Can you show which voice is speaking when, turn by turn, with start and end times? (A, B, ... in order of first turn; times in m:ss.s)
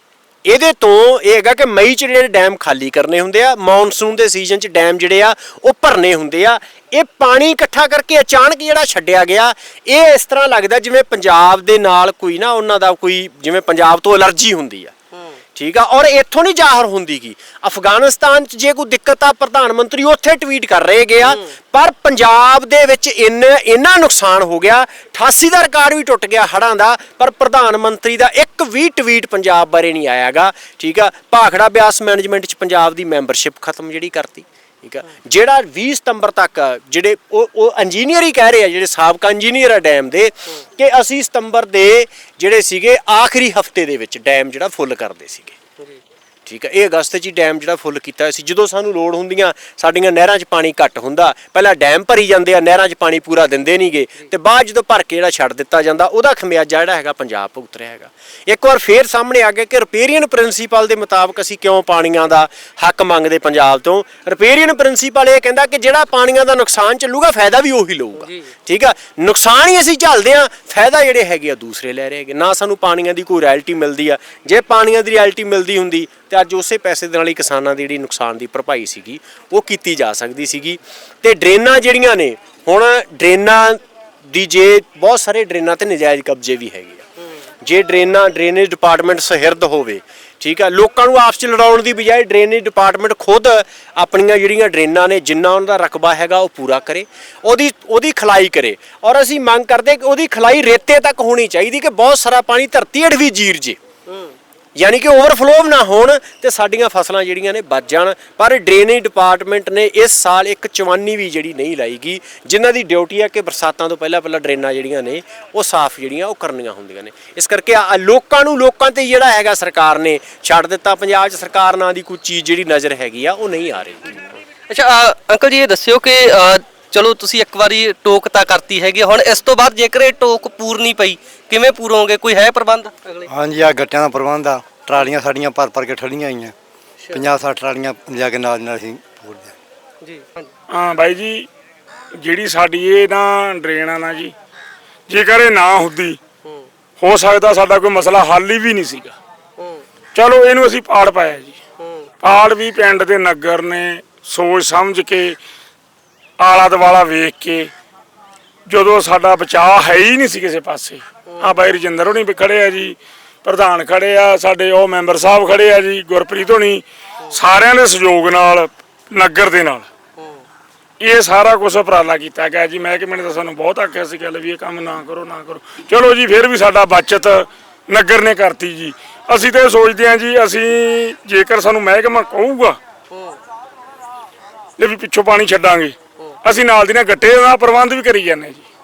0:00.4-0:14.9 A
0:15.6-0:45.6 A
0:21.2-0:21.4 B
0:46.5-1:27.0 A
1:08.2-1:08.5 B
1:27.6-1:43.8 A
1:44.1-1:44.3 B
1:44.8-2:04.2 A
2:04.7-2:13.2 B
2:13.3-2:16.5 C
2:17.1-2:19.5 C
2:20.0-2:20.5 B
2:20.7-2:21.5 D
2:22.2-2:24.3 D
2:25.1-2:26.2 D
2:27.0-2:29.2 D
2:30.2-2:31.6 D
2:31.8-2:32.1 B
2:32.2-2:35.4 D
2:36.4-2:37.7 D
2:38.7-2:49.8 D
2:51.0-3:02.8 D
3:04.8-3:08.6 D